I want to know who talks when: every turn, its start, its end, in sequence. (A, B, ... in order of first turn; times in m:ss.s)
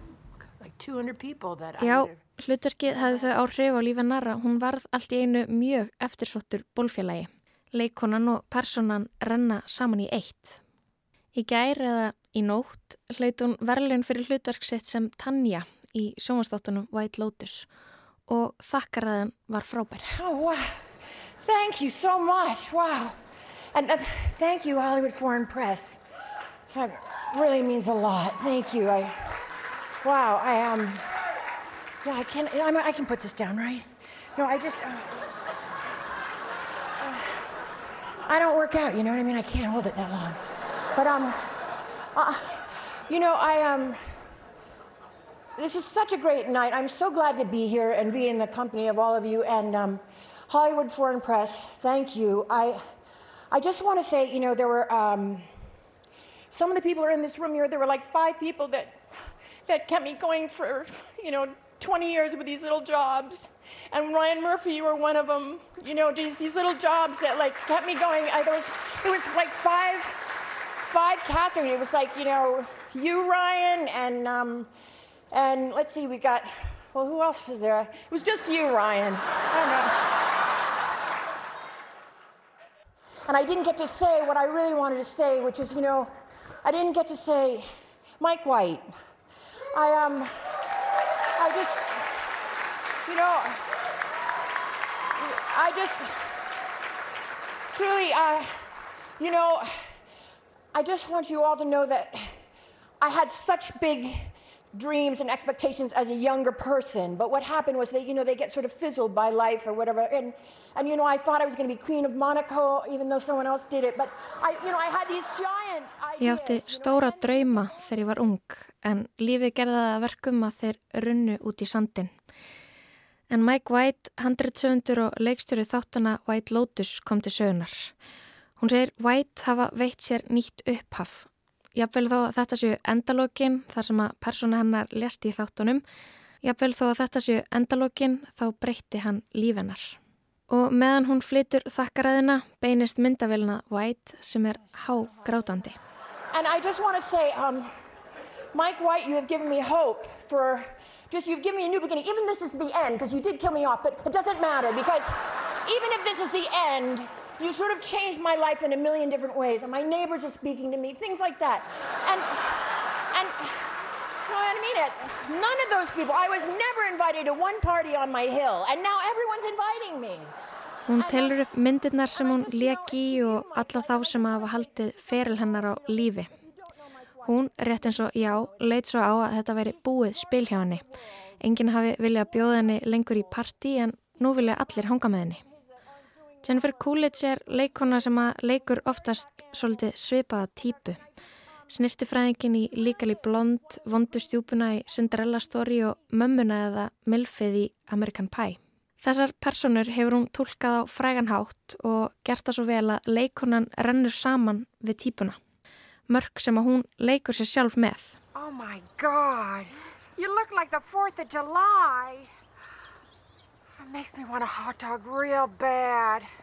0:00.4-0:02.2 A
0:01.8-0:10.6 B
0:02.9-0:03.4 A
0:11.3-0:17.7 B
0:18.3-0:20.1 B
0:20.0-0:20.9 A
0:21.4-0:23.2 A
0:23.7-0:26.0 A
0:26.7-0:29.4 A
0:30.0-0:31.1 A
0:32.0-0:35.2 A
0:37.0-0:37.4 A
0:38.2-0:44.2 A
0:45.6-0:52.8 A
0:53.5-0:55.5 A
0:56.5-1:14.7 A
1:15.3-1:20.1 A
1:23.2-1:28.9 A
1:29.7-1:30.6 A
1:31.4-1:32.2 A
1:33.0-1:33.6 A
1:35.2-1:36.4 A
1:37.7-1:40.0 A
1:40.7-1:42.4 A
1:43.0-1:57.8 A
1:56.2-2:02.1 B
2:03.3-2:07.9 B
2:08.6-2:15.8 B
2:16.4-2:20.0 B
2:20.5-2:25.8 B
2:26.3-2:27.8 A
2:28.5-2:50.3 A
2:50.9-2:56.3 B
2:51.0-2:51.4 A
2:52.1-2:54.7 A
2:55.3-2:57.4 A
2:57.2-3:00.8 B
3:01.4-3:05.4 B
3:06.4-3:11.0 B
3:11.7-3:25.4 B
3:26.1-3:28.2 B
3:28.3-3:32.3 A
3:33.8-3:36.3 A